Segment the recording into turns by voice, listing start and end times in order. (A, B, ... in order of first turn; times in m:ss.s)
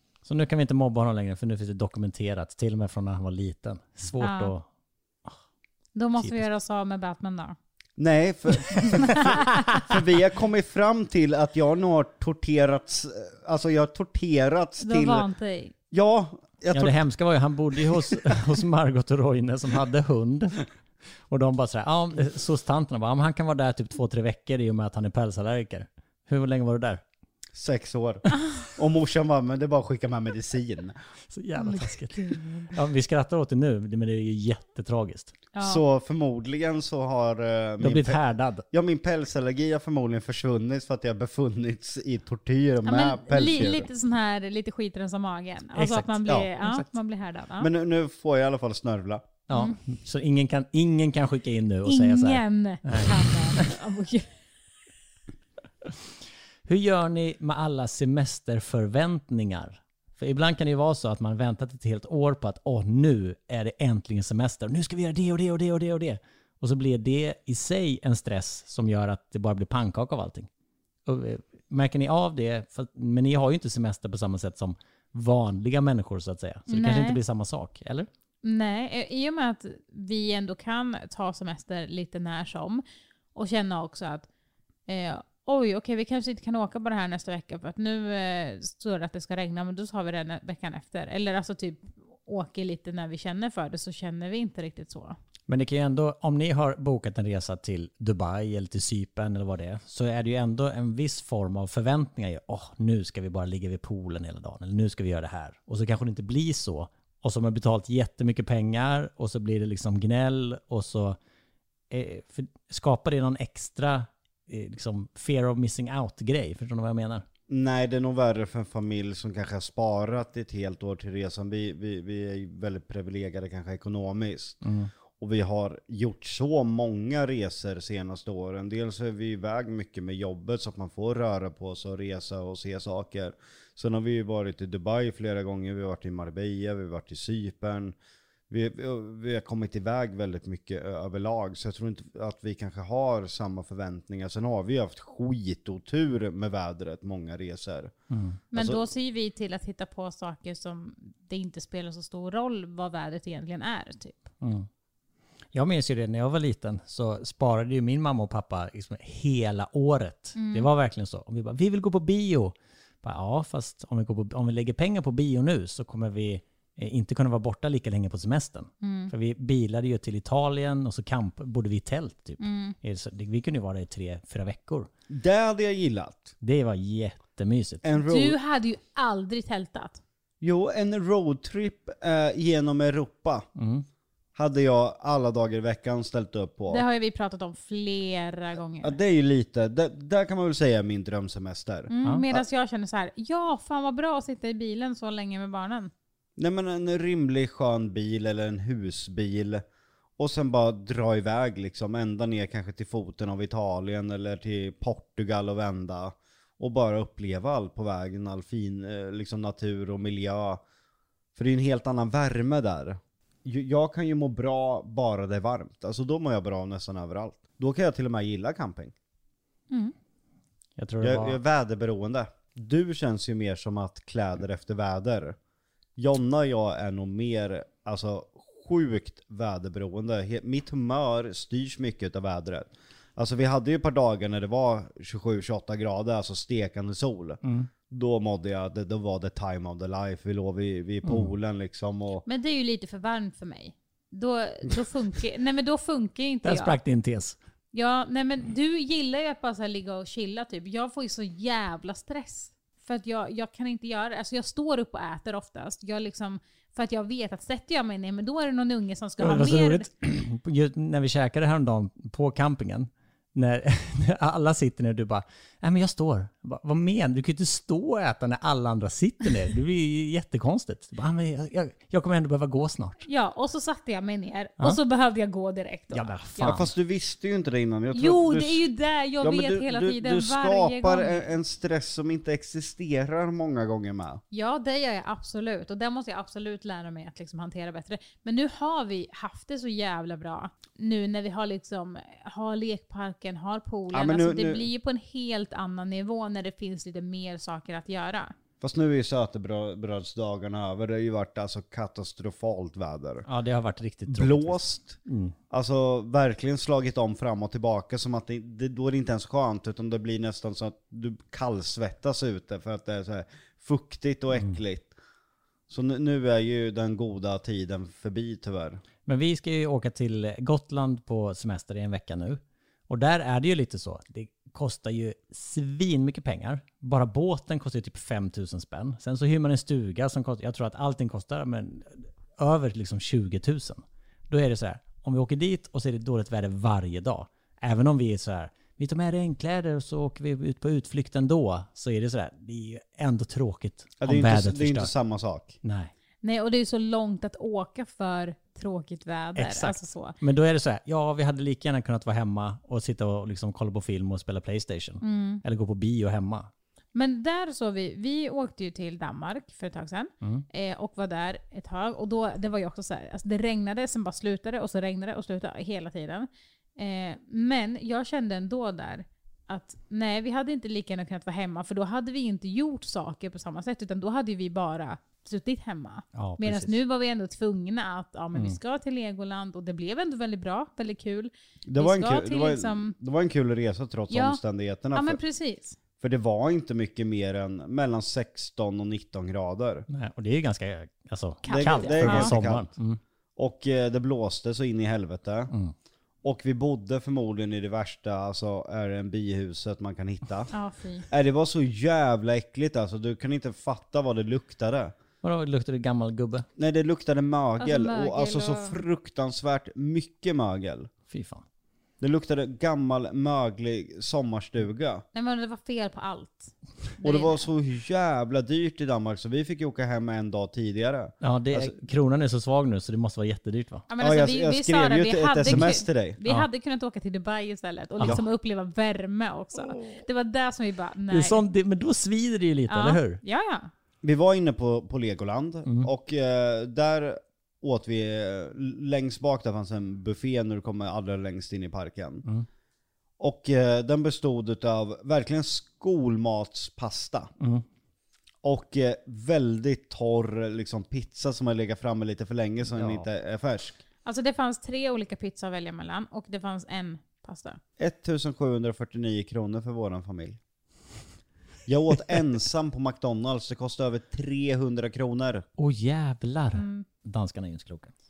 0:00.2-0:04.6 A
0:04.2-0:04.5 B
0:05.9-0:07.6 B
0:08.0-0:15.3 C
0:08.7-0:09.8 A
0:08.9-0:09.4 B
0:14.8-0:15.7 B
0:15.9-0:17.0 C
0:16.7-0:20.6 A
0:17.8-0:18.3 C
0:21.3-0:27.0 A
0:27.5-0:31.0 C
0:31.3-0:35.3 A
0:31.6-0:32.7 B
0:35.5-0:35.8 B
0:35.6-0:43.9 C
0:37.8-0:38.6 A
0:42.8-0:47.7 B
0:45.8-0:46.8 A
0:47.6-0:49.3 C
0:49.5-0:53.7 A
0:49.5-0:49.8 B
0:51.8-0:54.3 B
0:56.6-1:10.5 A
1:11.0-1:18.1 A
1:16.7-1:17.2 B
1:18.4-1:22.8 B
1:23.3-1:24.3 B
1:24.9-1:35.2 B
1:35.5-1:51.2 A
1:51.9-1:57.2 A
1:57.5-2:04.6 C
2:04.6-2:04.9 A
2:05.2-2:17.9 C
2:18.5-2:27.9 C
2:28.1-2:28.4 A
2:28.5-2:34.3 B
2:28.5-2:28.8 C
2:34.4-2:34.7 A
2:35.5-2:54.9 A
2:40.4-2:40.7 B
2:48.8-2:49.1 B
2:52.4-2:52.8 B
2:55.1-2:56.3 C
2:56.4-2:57.8 A
2:57.8-2:58.4 C
2:58.0-3:00.0 B
3:00.4-3:03.4 C
3:03.6-3:03.8 A
3:04.4-3:06.8 C
3:06.7-3:09.0 B
3:08.8-3:12.4 C
3:11.9-3:15.9 B
3:16.4-3:19.6 C
3:20.2-3:30.6 C
3:31.3-3:38.9 C
3:40.8-3:41.4 A
3:41.0-3:45.4 C
3:46.0-4:02.2 C
3:57.4-3:57.7 A
4:01.0-4:01.3 A
4:02.2-4:06.8 B
4:06.4-4:07.4 A
4:07.7-4:19.9 B
4:19.2-4:33.0 A
4:33.0-4:36.5 B
4:35.9-4:36.7 A
4:36.4-4:38.6 C
4:37.9-4:41.3 B
4:39.2-4:44.2 C
4:44.3-4:58.3 B
4:53.9-4:54.7 C
4:58.6-5:03.2 C
5:03.2-5:05.3 A
5:04.1-5:05.0 C
5:05.5-5:14.9 C
5:15.7-5:18.8 C
5:19.0-5:44.9 A
5:44.0-5:45.6 C
5:45.6-5:45.9 A
5:46.2-5:50.2 B
5:49.4-5:56.5 A
5:55.0-5:55.4 B
5:56.9-6:22.9 B
6:16.1-6:16.8 A
6:21.7-6:25.2 C
6:24.1-6:24.4 B
6:24.9-6:25.8 B
6:26.0-6:29.8 C
6:29.9-6:33.0 A
6:31.4-6:32.3 B
6:31.5-6:32.7 C
6:33.4-6:35.5 C
6:36.2-6:40.5 C
6:40.5-6:41.1 B
6:41.1-6:44.9 C
6:45.2-6:46.4 A
6:46.6-6:50.9 C
6:47.6-6:48.8 B
6:51.1-6:51.4 A
6:52.0-6:55.0 C
6:55.1-6:57.5 B
6:57.0-7:01.8 C
7:01.2-7:03.8 A
7:03.9-7:11.4 B
7:04.0-7:06.2 C
7:05.5-7:05.7 A
7:09.6-7:10.0 A
7:11.1-7:13.2 A
7:12.7-7:13.7 B
7:14.0-7:22.2 C
7:23.2-7:27.3 C
7:27.4-7:27.6 A
7:28.4-7:33.8 C
7:32.7-7:33.1 A
7:34.0-7:37.6 B
7:37.8-7:40.4 C
7:41.6-7:45.4 C
7:45.6-7:47.9 A
7:46.5-7:46.8 B